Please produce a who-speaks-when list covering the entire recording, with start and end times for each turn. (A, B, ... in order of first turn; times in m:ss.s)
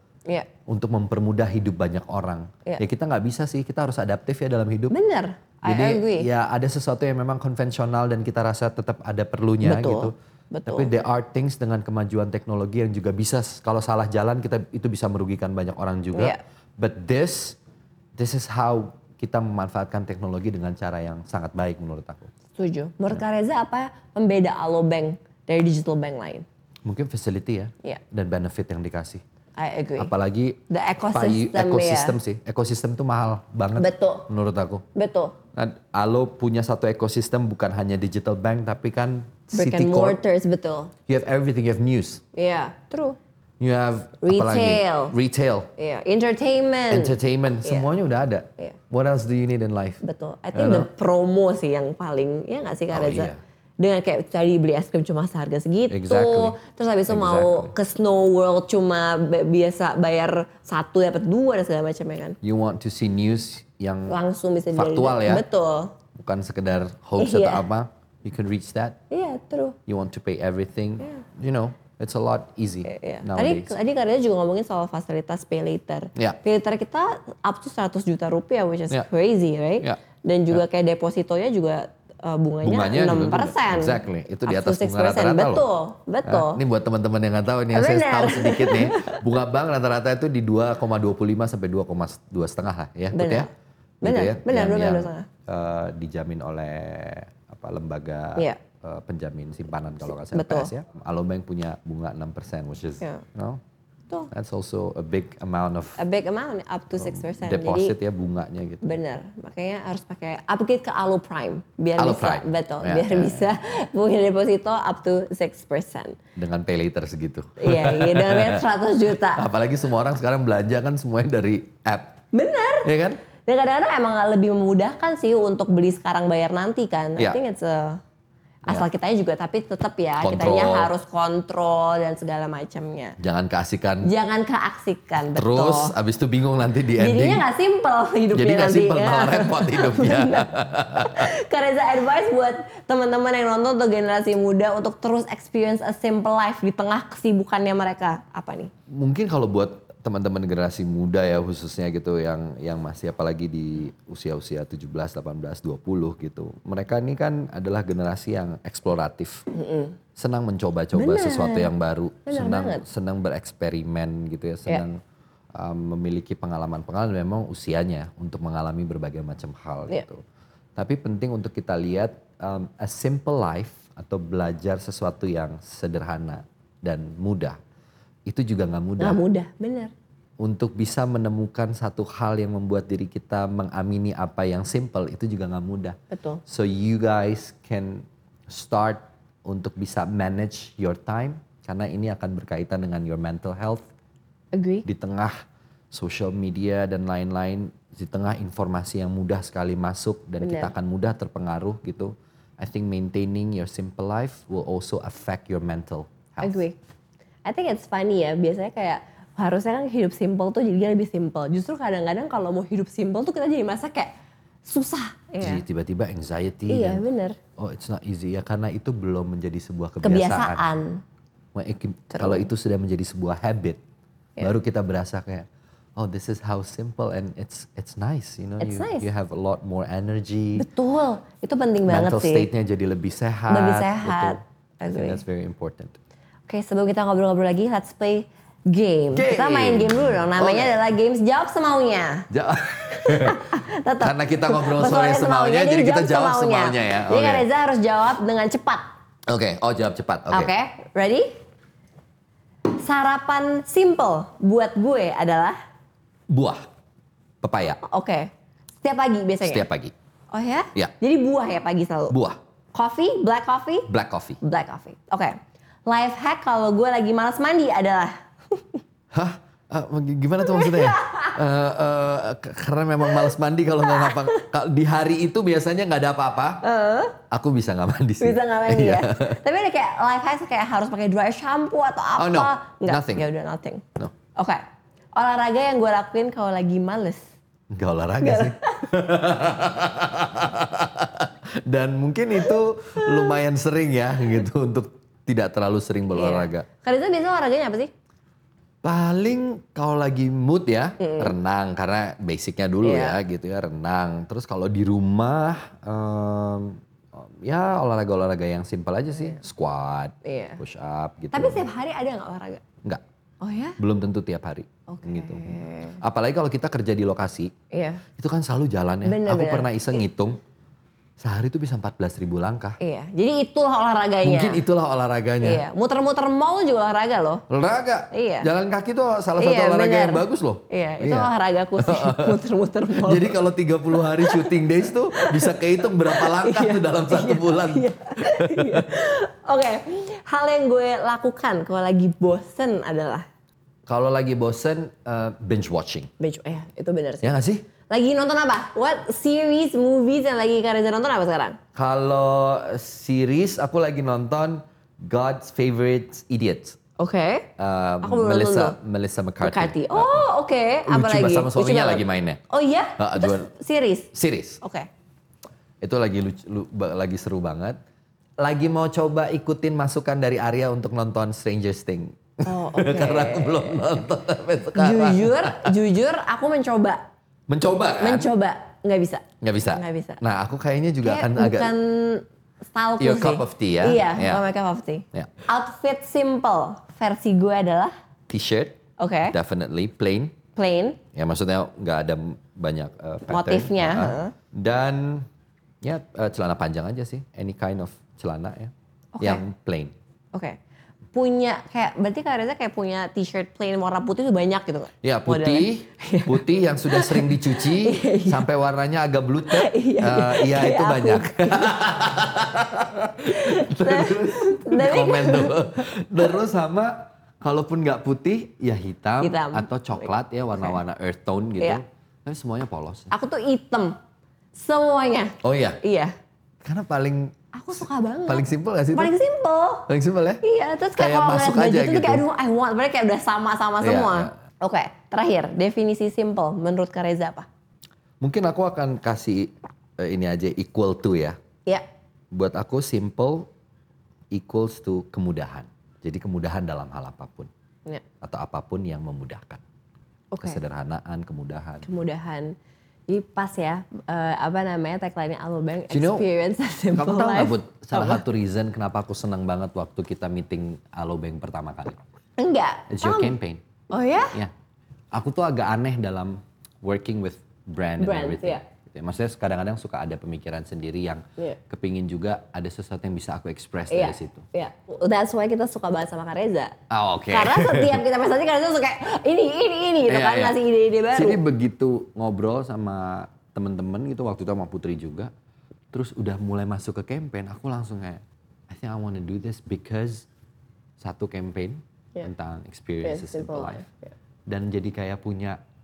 0:00.7-0:05.0 A
0:04.9-0:06.3 B
0:05.6-0:10.1 A
0:09.6-0:10.9 B
0:10.7-0:17.6 A
0:16.1-0:16.4 B
0:18.2-0:22.3 A
0:22.6-0:26.4 B
0:26.8-0:29.2 A
0:29.6-0:30.1 B
0:30.0-0:30.6 A
0:30.7-0:32.2 B
0:31.1-0:34.8 A
0:33.8-0:34.3 B
0:35.0-0:35.4 B
0:35.6-0:40.2 A
0:39.5-0:40.9 B
0:41.1-0:42.2 A
0:42.3-0:43.2 B
0:43.6-0:45.7 A
0:44.2-0:45.2 B
0:45.8-0:47.9 B
0:46.9-0:50.0 A
0:50.0-1:02.4 B
0:50.5-0:50.9 A
0:52.9-0:53.4 A
0:55.9-0:57.7 A
1:02.4-1:04.2 A
1:04.1-1:05.9 B
1:04.7-1:05.4 A
1:06.2-1:09.0 A
1:07.2-1:07.7 B
1:09.1-1:09.8 B
1:09.9-1:13.8 A
1:12.8-1:26.6 B
1:19.8-1:20.6 A
1:22.6-1:25.7 A
1:26.2-1:33.5 A
1:27.7-1:29.2 B
1:33.1-1:33.5 B
1:34.0-1:43.6 A
1:34.0-1:35.3 B
1:40.3-1:40.7 B
1:44.3-1:46.0 A
1:46.0-1:48.0 B
1:46.9-1:48.9 A
1:48.8-1:56.2 B
1:52.0-1:53.6 A
1:56.4-1:58.7 A
1:57.6-1:59.5 B
1:59.2-2:02.2 A
2:02.3-2:02.9 B
2:02.8-2:03.2 A
2:03.5-2:08.0 B
2:08.6-2:13.2 B
2:10.2-2:10.9 A
2:13.2-2:14.1 A
2:14.0-2:16.0 B
2:15.3-2:17.5 A
2:17.0-2:28.7 B
2:18.3-2:21.3 A
2:28.9-2:39.4 A
2:39.5-2:40.0 B
2:40.2-2:45.0 A
2:40.9-2:41.7 B
2:42.3-2:42.8 B
2:45.6-2:50.2 A
2:50.8-2:57.6 A
2:58.3-2:59.2 A
2:59.0-2:59.9 B
3:00.4-3:13.9 A
3:06.1-3:06.4 B
3:14.5-3:14.8 B
3:14.8-3:15.4 A
3:15.9-3:26.6 A
3:20.4-3:20.7 B
3:26.4-3:26.8 B
3:27.4-3:34.1 B
3:34.7-3:35.6 B
3:35.4-3:37.0 A
3:36.7-3:37.4 B
3:37.6-3:40.6 A
3:40.0-3:41.0 B
3:41.5-3:43.8 A
3:42.1-3:42.5 B
3:44.4-3:50.7 A
3:48.6-3:49.1 B
3:50.6-3:52.5 B
3:51.9-3:56.0 A
3:53.5-3:55.2 B
3:56.5-4:02.3 B
3:59.1-4:00.8 A
4:02.3-4:07.5 A
4:03.0-4:08.9 B
4:09.3-4:10.5 A
4:10.3-4:11.3 B
4:12.8-4:15.6 B
4:16.3-4:16.6 A
4:17.4-4:17.8 A
4:17.8-4:18.3 B
4:18.8-4:19.7 B
4:19.4-4:19.9 A
4:20.3-4:22.2 B
4:22.1-4:22.4 A
4:22.7-4:23.9 B
4:23.9-4:24.4 A
4:24.4-4:28.8 B
4:29.1-4:36.6 A
4:30.4-4:31.4 B
4:33.8-4:34.5 B
4:36.6-4:37.2 B
4:37.3-4:39.4 A
4:38.2-4:44.6 B
4:42.2-4:43.3 A
4:45.2-4:47.2 B
4:47.7-4:56.7 A
4:48.2-4:48.8 B
4:52.5-4:53.4 B
4:56.1-4:57.9 B
4:58.8-5:11.6 A
5:01.0-5:01.4 B
5:02.8-5:03.2 B
5:10.2-5:10.6 B
5:11.3-5:12.6 B
5:13.4-5:13.8 B
5:13.8-5:17.5 A
5:14.9-5:16.0 B
5:17.7-5:18.0 B
5:18.2-5:20.4 A
5:19.0-5:20.0 B
5:21.2-5:22.8 A
5:22.8-5:24.6 B
5:24.2-5:25.6 A
5:25.4-5:27.4 B
5:27.5-5:32.4 A
5:28.1-5:28.5 B
5:29.4-5:33.4 B
5:33.0-5:38.9 A
5:34.0-5:34.6 B
5:35.1-5:43.2 B
5:43.9-5:46.1 A
5:46.2-5:47.3 B
5:47.2-5:47.6 A
5:47.9-5:51.6 B
5:51.8-5:56.8 A
5:57.0-5:57.5 B
5:57.6-6:00.3 A
5:58.0-5:58.8 B
5:59.4-6:04.1 B
6:00.9-6:02.4 A
6:03.0-6:03.5 A
6:04.1-6:04.6 A
6:04.6-6:04.9 B
6:05.8-6:07.8 A
6:08.4-6:15.8 A
6:12.4-6:13.9 B
6:14.7-6:17.1 B
6:17.5-6:18.3 A
6:18.0-6:20.2 B
6:19.4-6:21.7 A
6:21.0-6:27.9 B
6:23.0-6:24.4 A
6:28.3-6:30.4 A
6:29.0-6:29.4 B
6:30.6-6:31.0 B
6:31.1-6:35.3 A
6:33.3-6:34.3 B
6:35.8-6:39.9 A
6:39.2-6:39.4 B
6:41.1-6:48.5 B
6:45.0-7:03.1 A
6:49.5-6:51.8 B
6:53.3-6:56.2 B
6:59.2-7:00.8 B
7:03.1-7:04.0 B
7:04.6-7:06.1 B
7:05.4-7:05.8 A
7:06.6-7:09.1 A
7:07.5-7:09.9 B
7:09.9-7:10.4 A
7:10.4-7:17.5 B
7:10.9-7:12.3 A
7:13.8-7:14.3 A
7:18.2-7:21.4 A
7:22.3-7:23.5 A
7:24.3-7:27.5 A
7:28.2-7:29.6 A
7:30.3-7:30.6 B
7:30.4-7:31.8 A
7:31.8-7:32.6 B
7:33.1-7:38.2 B
7:35.9-7:36.3 A
7:36.9-7:42.0 A
7:42.4-7:43.4 B
7:42.9-7:43.6 A
7:43.9-7:44.4 B
7:45.1-7:54.4 A
7:48.0-7:48.6 B
7:53.9-7:56.8 B
7:56.9-7:58.0 A
7:57.3-8:01.4 B
8:00.1-8:00.6 A
8:01.1-8:05.3 A
8:05.9-8:10.3 A
8:11.0-8:13.8 A
8:13.0-8:14.1 B
8:14.5-8:15.6 A